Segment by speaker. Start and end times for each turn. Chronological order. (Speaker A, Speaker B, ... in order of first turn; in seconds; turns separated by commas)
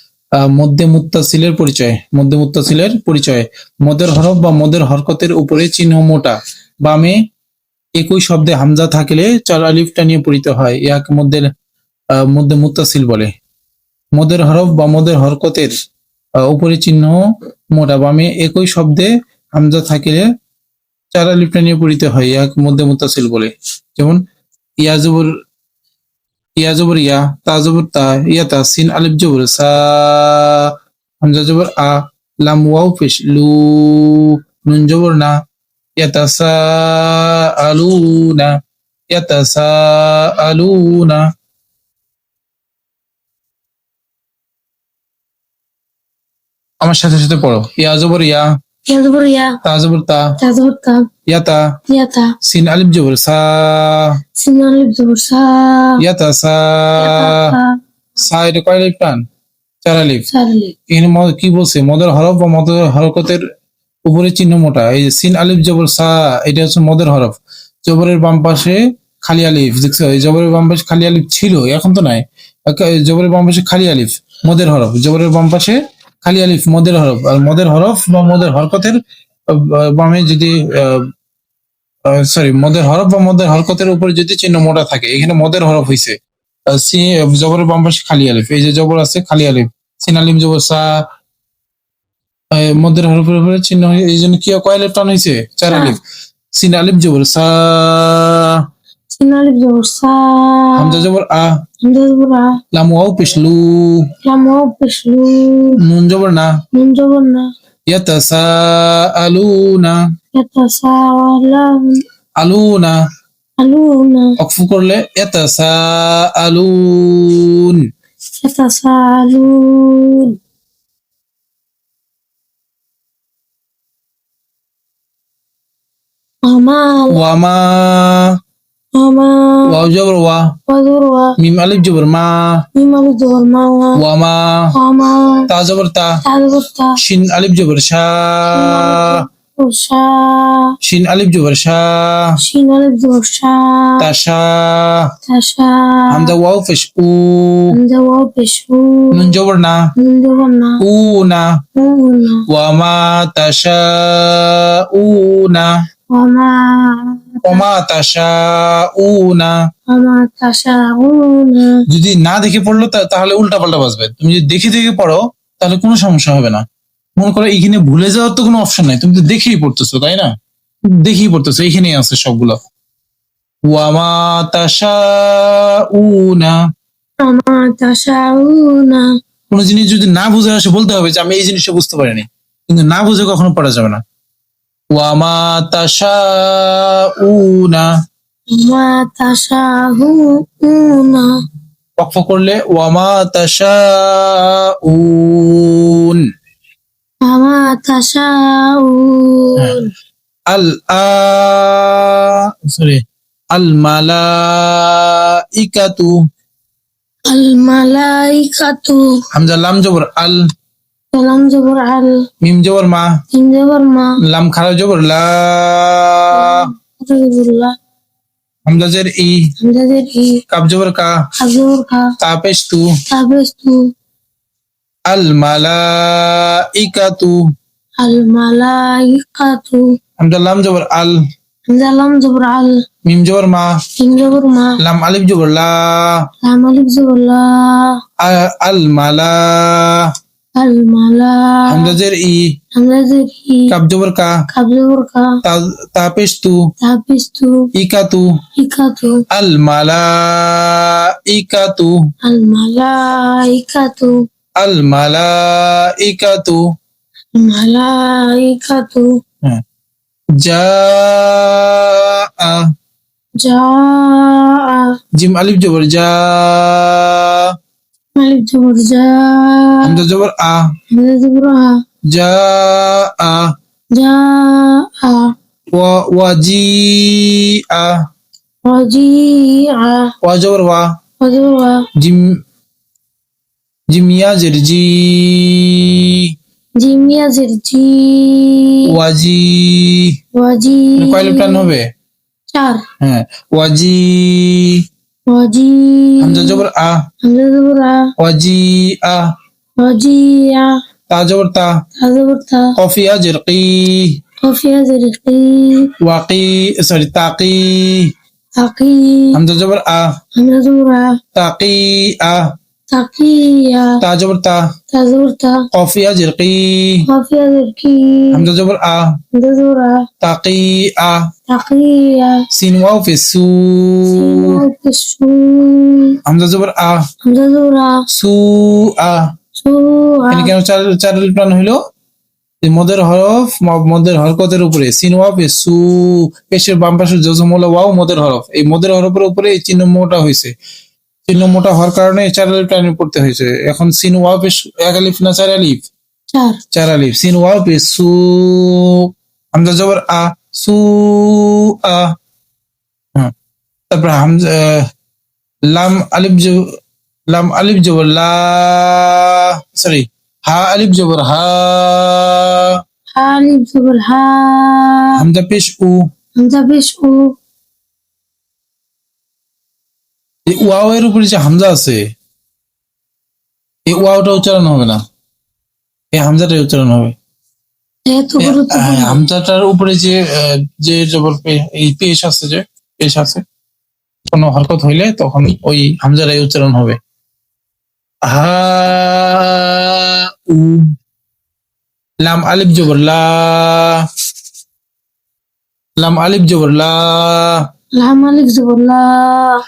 Speaker A: 0.4-7.2, Speaker A: 8.0-11.5, Speaker A: 12.2-13.3, Speaker A: 14.1-15.7, Speaker A: 16.4-20.2, Speaker A: 21.1-24.2, Speaker A: 24.8-25.3, Speaker A: 26.6-35.3, Speaker A: 36.0-38.5, Speaker A: 39.1-41.2, Speaker A: 46.8-48.5, Speaker B: 48.9-49.6, Speaker A: 49.6-50.3, Speaker B: 50.4-51.0, Speaker A: 51.3-51.7, Speaker B: 51.9-52.3, Speaker A: 52.4-54.1, Speaker B: 54.4-56.0, Speaker A: 56.0-57.5, Speaker B: 57.0-57.8, Speaker A: 58.2-59.2, Speaker A: 59.8-60.3, Speaker B: 60.3-60.7, Speaker A: 60.9-63.4, Speaker A: 64.0-81.1, Speaker A: 82.1-86.2, Speaker A: 86.7-90.9, Speaker A: 92.5-96.0, Speaker B: 95.7-96.0, Speaker A: 96.6-98.6, Speaker B: 99.1-101.0, Speaker A: 100.8-101.5, Speaker B: 101.8-102.6, Speaker A: 102.7-104.1, Speaker B: 104.2-105.8, Speaker A: 105.8-106.6, Speaker B: 106.7-107.5, Speaker A: 107.9-110.0, Speaker B: 110.3-112.0, Speaker A: 112.4-113.0, Speaker B: 113.6-114.3, Speaker A: 114.4-117.8, Speaker B: 118.4-120.3, Speaker B: 126.5-127.2, Speaker A: 127.1-128.3, Speaker B: 128.9-129.7, Speaker A: 129.7-130.5, Speaker B: 130.7-131.3, Speaker A: 131.4-132.6, Speaker B: 132.8-134.0, Speaker A: 134.0-134.7, Speaker B: 134.7-135.4, Speaker A: 135.5-136.1, Speaker B: 136.2-136.9, Speaker A: 137.0-139.2, Speaker B: 138.5-140.7, Speaker A: 140.8-142.3, Speaker B: 142.4-144.0, Speaker A: 144.0-145.0, Speaker B: 145.3-146.3, Speaker A: 146.1-147.8, Speaker B: 147.7-149.2, Speaker A: 149.1-149.8, Speaker B: 150.0-150.8, Speaker A: 150.8-151.4, Speaker B: 151.8-152.4, Speaker A: 152.5-155.7, Speaker B: 156.1-157.6, Speaker A: 157.4-159.5, Speaker B: 159.9-161.8, Speaker A: 161.9-166.6, Speaker A: 167.2-170.3, Speaker A: 171.0-172.6, Speaker A: 173.7-176.6, Speaker B: 177.2-179.1, Speaker A: 179.5-184.0, Speaker A: 184.9-187.9, Speaker B: 188.5-191.3, Speaker A: 192.0-196.2, Speaker B: 197.2-199.9, Speaker A: 200.5-206.2, Speaker B: 207.3-209.2, Speaker A: 209.3-210.4, Speaker B: 211.1-212.1, Speaker A: 212.4-213.1, Speaker B: 213.3-214.2, Speaker A: 214.2-216.7, Speaker B: 216.3-217.8, Speaker A: 218.7-219.4, Speaker B: 219.6-220.4, Speaker A: 220.5-221.1, Speaker B: 221.4-222.1, Speaker A: 222.2-222.8, Speaker B: 223.1-223.8, Speaker A: 225.1-227.4, Speaker B: 228.0-229.9, Speaker A: 230.2-231.2, Speaker B: 231.7-232.8, Speaker A: 233.1-233.7, Speaker B: 234.0-234.8, Speaker A: 234.8-236.2, Speaker B: 236.4-238.0, Speaker A: 238.2-240.1, Speaker B: 240.6-241.9, Speaker A: 241.7-242.5, Speaker B: 242.7-243.7, Speaker A: 243.7-244.3, Speaker B: 244.5-245.3, Speaker A: 245.4-246.6, Speaker B: 246.8-247.7, Speaker A: 247.7-248.3, Speaker B: 248.6-249.2, Speaker A: 249.3-251.9, Speaker B: 252.2-254.2, Speaker A: 254.6-256.6, Speaker B: 257.3-259.1, Speaker A: 260.4-262.7, Speaker B: 263.4-264.9, Speaker A: 265.2-267.5, Speaker B: 268.1-270.0, Speaker A: 269.8-270.6, Speaker B: 270.9-271.8, Speaker A: 272.1-273.5, Speaker B: 273.9-275.3, Speaker A: 275.7-278.0, Speaker B: 278.6-280.1, Speaker A: 280.2-280.9, Speaker B: 281.2-281.8, Speaker A: 282.0-282.3, Speaker A: 283.9-286.2, Speaker B: 286.8-288.9, Speaker A: 288.9-290.1, Speaker B: 290.3-291.7, Speaker A: 291.0-291.8, Speaker B: 292.5-292.8, Speaker A: 293.0-294.8, Speaker B: 295.3-296.6, Speaker A: 296.2-297.0, Speaker B: 297.2-298.1, Speaker A: 298.2-299.2, Speaker B: 299.8-300.7, Speaker A: 301.1-301.8, Speaker B: 302.0-302.7, Speaker A: 302.8-304.1, Speaker B: 304.4-305.9, Speaker A: 306.0-308.1, Speaker B: 308.6-309.4, Speaker A: 309.3-310.1, Speaker B: 310.4-311.1, Speaker A: 311.3-312.4, Speaker B: 312.9-313.9, Speaker A: 314.0-314.6, Speaker B: 314.9-315.6, Speaker A: 315.7-317.0, Speaker B: 317.1-318.4, Speaker A: 318.3-319.1, Speaker B: 319.3-320.0, Speaker A: 320.2-321.2, Speaker B: 321.5-322.4, Speaker A: 322.5-324.6, Speaker B: 324.2-326.2, Speaker A: 326.2-327.0, Speaker B: 327.2-328.0, Speaker A: 328.1-329.2, Speaker B: 329.6-330.5, Speaker A: 330.3-331.8, Speaker A: 332.6-340.5, Speaker A: 341.3-345.9, Speaker B: 346.3-346.6, Speaker A: 346.7-352.1, Speaker A: 353.9-354.9, Speaker A: 355.7-356.7, Speaker A: 357.3-362.8, Speaker B: 363.1-365.1, Speaker A: 365.1-366.0, Speaker B: 366.4-367.3, Speaker A: 370.5-372.0, Speaker A: 373.9-375.0, Speaker A: 376.1-377.1, Speaker B: 378.1-379.2, Speaker A: 378.4-383.4, Speaker A: 384.3-387.0, Speaker A: 388.3-390.9, Speaker A: 392.2-394.0, Speaker A: 396.0-397.6, Speaker B: 398.0-399.6